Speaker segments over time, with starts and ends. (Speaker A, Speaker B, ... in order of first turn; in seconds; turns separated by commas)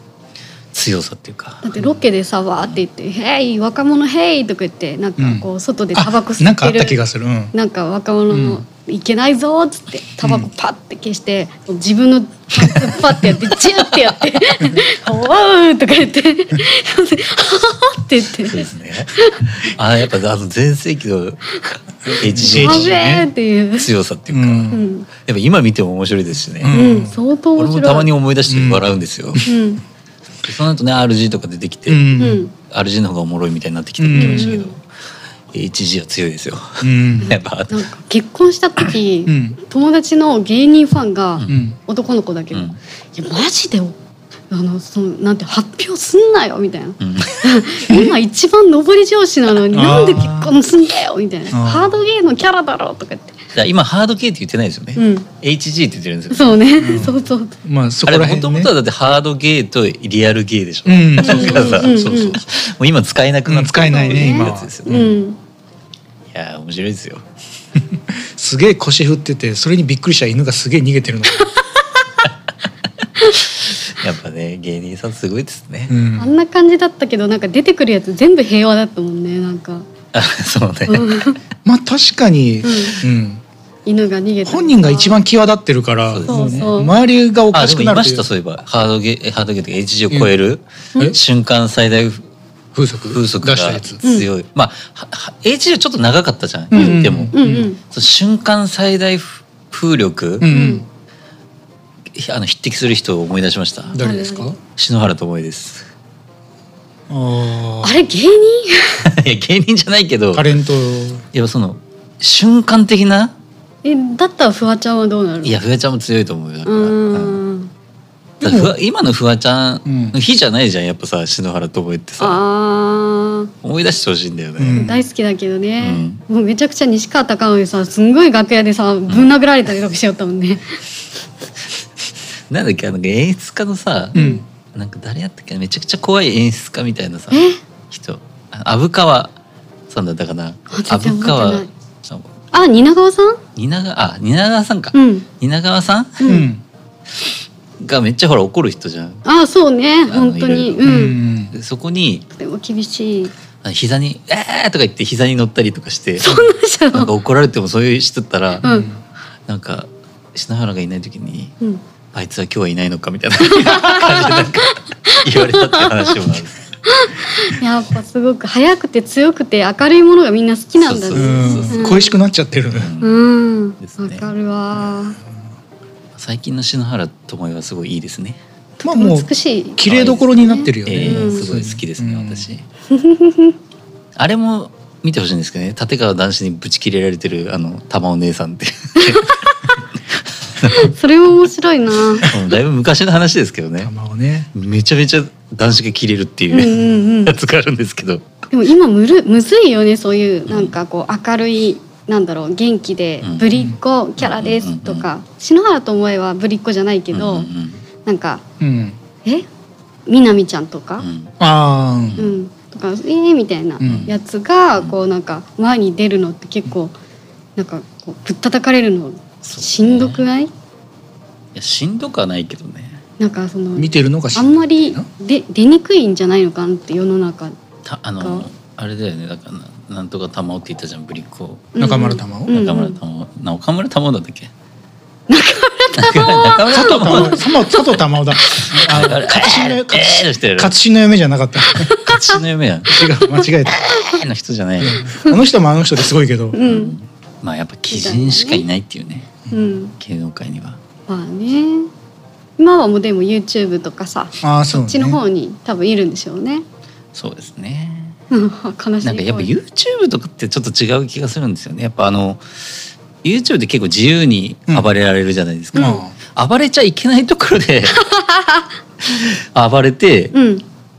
Speaker A: 0.7-1.7, Speaker B: 1.6-7.0, Speaker C: 5.2-7.5, Speaker B: 7.5-19.4, Speaker C: 8.3-8.6, Speaker C: 10.2-10.5, Speaker A: 13.8-14.5, Speaker A: 18.4-23.0, Speaker C: 22.1-23.2, Speaker B: 22.4-23.9, Speaker A: 23.8-26.8, Speaker C: 24.3-24.8, Speaker B: 24.7-25.1, Speaker C: 26.6-27.1, Speaker B: 26.7-28.1, Speaker A: 27.6-29.4, Speaker C: 28.5-28.8, Speaker B: 29.4-29.8, Speaker A: 30.4-34.8, Speaker C: 31.9-32.4, Speaker B: 32.2-32.5, Speaker C: 34.0-34.5, Speaker B: 34.1-34.7, Speaker A: 35.5-37.8, Speaker C: 36.8-37.4, Speaker B: 37.2-44.0, Speaker C: 39.3-39.6, Speaker C: 41.5-41.8, Speaker A: 42.5-42.8, Speaker B: 44.5-53.4, Speaker A: 47.0-47.6, Speaker C: 47.9-48.1, Speaker C: 49.7-50.5, Speaker C: 51.5-51.9, Speaker A: 53.5-57.1, Speaker B: 55.0-55.3, Speaker B: 56.3-57.5, Speaker C: 56.8-58.7, Speaker A: 58.0-65.0, Speaker C: 60.9-62.4, Speaker B: 61.2-62.4, Speaker C: 63.5-65.1, Speaker B: 63.8-65.4, Speaker A: 66.3-67.2, Speaker C: 68.1-71.5, Speaker A: 73.2-75.9, Speaker C: 75.9-76.3, Speaker B: 76.2-79.9, Speaker A: 80.1-81.2, Speaker B: 80.9-81.4, Speaker C: 81.6-83.4, Speaker B: 82.6-83.0, Speaker B: 83.8-85.2, Speaker C: 84.5-88.2, Speaker A: 86.1-86.7, Speaker B: 86.3-86.9, Speaker A: 87.5-92.2, Speaker C: 92.7-94.0, Speaker A: 93.1-100.5, Speaker B: 94.0-94.3, Speaker C: 96.7-97.7, Speaker B: 96.7-97.8, Speaker C: 100.4-100.8, Speaker B: 100.5-100.8, Speaker A: 102.1-104.0, Speaker C: 103.9-104.6, Speaker B: 103.9-104.6, Speaker A: 104.8-105.8, Speaker C: 107.1-107.9, Speaker B: 107.8-109.0, Speaker A: 109.0-110.5, Speaker C: 110.3-111.2, Speaker A: 111.3-113.3, Speaker B: 113.8-115.5, Speaker A: 115.4-117.4, Speaker B: 116.7-117.7, Speaker C: 118.4-118.7, Speaker A: 118.4-122.4, Speaker C: 119.8-120.2, Speaker B: 122.2-123.5, Speaker A: 123.6-124.9, Speaker C: 124.6-125.0, Speaker B: 124.7-130.8, Speaker A: 125.8-126.2, Speaker A: 132.5-134.2, Speaker B: 134.1-134.4, Speaker C: 134.1-134.4, Speaker A: 134.7-139.3, Speaker B: 137.3-137.6, Speaker A: 139.9-142.3, Speaker B: 140.7-141.7, Speaker B: 142.5-143.4, Speaker A: 143.6-146.3, Speaker B: 144.9-145.2, Speaker B: 146.2-146.5, Speaker C: 146.2-146.6, Speaker A: 147.8-149.2, Speaker B: 149.2-151.2, Speaker A: 150.1-150.9, Speaker C: 150.8-151.5, Speaker A: 151.5-152.2, Speaker B: 152.3-153.3, Speaker A: 153.6-158.6, Speaker B: 156.2-157.1, Speaker B: 158.6-158.9, Speaker C: 158.6-159.0, Speaker A: 159.5-161.5, Speaker A: 162.1-166.6, Speaker B: 163.4-166.2, Speaker C: 163.4-164.4, Speaker B: 166.9-172.2, Speaker A: 170.8-171.9, Speaker C: 171.1-172.9, Speaker A: 172.7-173.2, Speaker B: 173.0-175.2, Speaker A: 173.8-174.3, Speaker A: 176.1-178.4, Speaker B: 178.8-181.5, Speaker C: 178.8-182.5, Speaker A: 179.8-182.6, Speaker B: 182.9-183.6, Speaker A: 184.2-189.4, Speaker B: 189.0-189.8, Speaker A: 190.6-190.9, Speaker B: 190.6-192.3, Speaker A: 192.2-193.9, Speaker C: 193.8-194.5, Speaker A: 194.5-198.2, Speaker B: 196.5-197.3, Speaker B: 198.5-207.5, Speaker A: 200.5-200.7, Speaker A: 203.2-203.5, Speaker A: 204.2-205.0, Speaker A: 207.1-207.8, Speaker B: 208.0-208.4, Speaker C: 208.6-209.0, Speaker B: 210.1-211.1, Speaker A: 211.0-211.3, Speaker C: 211.4-212.2, Speaker A: 212.1-212.3, Speaker B: 212.2-216.9, Speaker C: 213.8-214.1, Speaker A: 213.8-214.1, Speaker B: 217.6-220.5, Speaker A: 219.5-220.2, Speaker A: 221.5-223.0, Speaker B: 223.2-227.5, Speaker C: 223.8-225.1, Speaker A: 227.8-231.7, Speaker B: 228.2-228.4, Speaker B: 231.7-233.0, Speaker C: 231.8-232.5, Speaker A: 232.5-234.5, Speaker B: 235.3-237.4, Speaker A: 236.0-240.7, Speaker C: 236.7-241.9, Speaker B: 238.5-238.9, Speaker B: 241.7-242.4, Speaker A: 242.0-243.1, Speaker C: 242.9-243.8, Speaker B: 243.3-244.0, Speaker A: 243.8-245.0, Speaker C: 244.8-246.6, Speaker B: 244.9-245.4, Speaker B: 246.5-246.9, Speaker A: 246.6-249.3, Speaker B: 247.9-248.6, Speaker B: 249.5-249.9, Speaker A: 250.0-250.8, Speaker B: 251.1-251.9, Speaker B: 252.6-256.6, Speaker C: 254.4-255.2, Speaker A: 257.1-258.2, Speaker B: 258.3-259.5, Speaker A: 259.0-268.2, Speaker B: 265.7-266.0, Speaker C: 265.7-266.1, Speaker B: 268.0-268.6, Speaker A: 269.0-270.3, Speaker B: 270.3-270.6